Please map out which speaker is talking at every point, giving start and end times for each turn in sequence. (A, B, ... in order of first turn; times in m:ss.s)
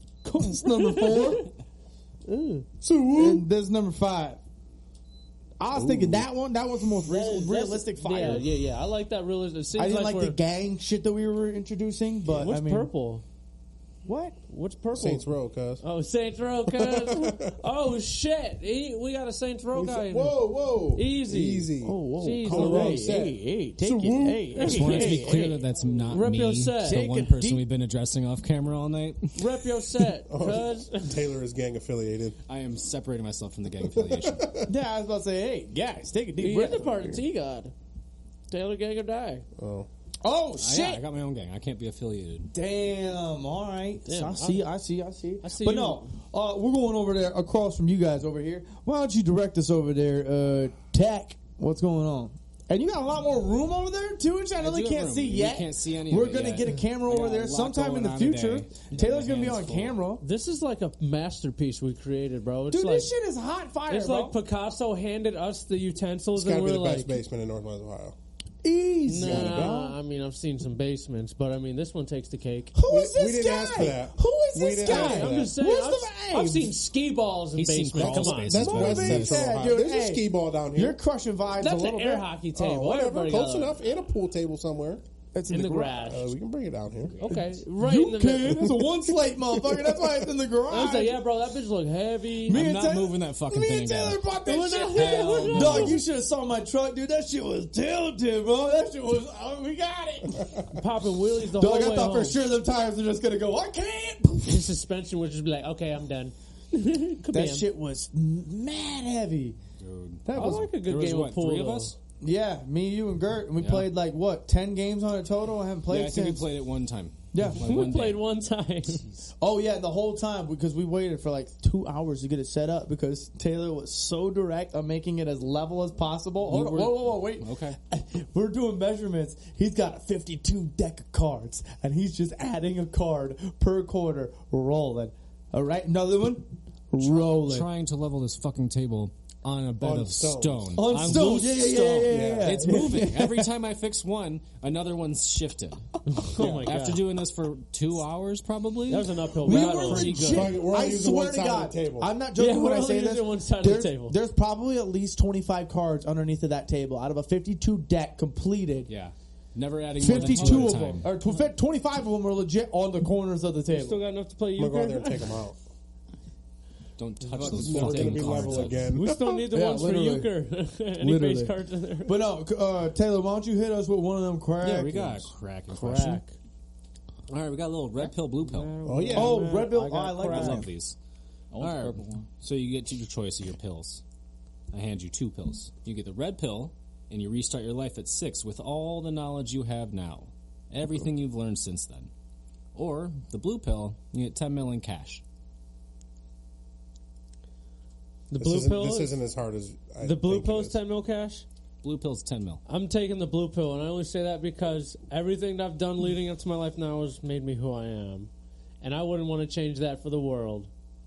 0:00.2-0:01.5 A
0:00.3-0:01.5 B
0:02.2-0:02.7 B
0:02.8-0:03.4 C
0:03.1-0:04.4 A
0:05.6-0:08.5 A
0:05.7-0:06.3 C
0:07.0-0:10.4 B
0:09.8-0:12.9 A
0:12.3-0:13.2 B
0:14.0-0:14.4 A
0:14.5-0:15.3 B
0:14.9-0:15.8 C
0:15.8-0:20.4 B
0:16.7-0:17.5 C
0:19.7-0:24.6 C
0:20.9-0:23.2 B
0:21.8-0:25.6 A
0:24.6-0:27.0 B
0:24.6-0:29.6 D
0:26.8-0:27.6 A
0:29.3-0:31.2 B
0:30.3-0:32.4 C
0:32.5-0:34.5 D
0:33.9-0:34.7 C
0:34.7-0:37.2 A
0:36.4-0:37.7 B
0:38.5-0:39.4 B
0:39.6-0:39.9 C
0:40.2-0:41.0 A
0:40.6-0:42.5 D
0:42.5-1:00.2 A
0:44.0-0:44.7 B
0:45.4-0:46.1 B
0:54.6-1:00.0 D
1:00.2-1:03.1 B
1:02.7-1:04.4 A
1:03.9-1:07.2 B
1:06.4-1:08.2 C
1:08.6-1:10.0 A
1:09.0-1:12.7 B
1:09.2-1:09.8 C
1:12.7-1:16.8 A
1:12.9-1:15.6 C
1:14.8-1:18.7 B
1:17.5-1:19.5 D
1:18.0-1:21.0 C
1:18.5-1:22.3 A
1:21.6-1:23.8 B
1:22.5-1:25.0 C
1:25.3-1:26.1 A
1:25.5-1:26.3 B
1:26.0-1:27.2 C
1:27.1-1:27.4 D
1:27.2-1:28.7 B
1:27.3-1:31.2 A
1:28.6-1:30.3 C
1:30.6-1:32.6 B
1:32.5-1:40.6 A
1:32.5-1:34.2 D
1:34.4-1:36.0 B
1:34.9-1:36.0 E
1:40.7-1:42.4 B
1:41.5-1:44.7 A
1:44.4-1:47.6 B
1:47.3-1:49.6 A
1:49.8-1:51.9 D
1:50.2-1:50.7 A
1:50.3-1:51.9 B
1:52.2-1:56.4 A
1:53.6-1:53.9 D
1:55.9-1:58.2 D
1:57.3-1:57.6 A
1:57.6-1:59.0 B
1:58.9-1:59.3 D
1:59.4-2:17.7 A
2:06.4-2:07.8 D
2:17.0-2:30.4 D
2:19.8-2:21.2 C
2:20.7-2:23.5 A
2:21.0-2:21.4 B
2:22.1-2:22.9 C
2:26.1-2:27.0 B
2:28.9-2:30.5 B
2:29.4-2:38.9 A
2:30.2-2:32.1 C
2:32.3-2:34.2 B
2:38.9-2:41.1 D
2:40.0-2:44.0 A
2:43.7-2:45.4 B
2:44.6-2:45.6 C
2:47.0-2:48.9 D
2:47.4-2:49.4 C
2:47.4-2:48.8 E
2:48.9-2:52.2 B
2:49.5-2:50.3 A
2:51.0-2:55.3 A
2:54.6-2:56.2 D
2:55.7-2:56.3 B
2:57.3-2:58.7 D
2:58.4-3:00.7 B
2:58.8-2:59.4 C
2:59.1-3:00.7 A
3:00.2-3:01.0 D
3:01.5-3:02.3 E
3:01.6-3:04.0 D
3:04.7-3:12.1 D
3:12.7-3:15.2 D
3:18.3-3:19.2 B
3:18.4-3:20.8 C
3:20.0-3:21.4 B
3:21.8-3:22.6 D
3:22.6-3:28.3 B
3:28.8-3:30.7 B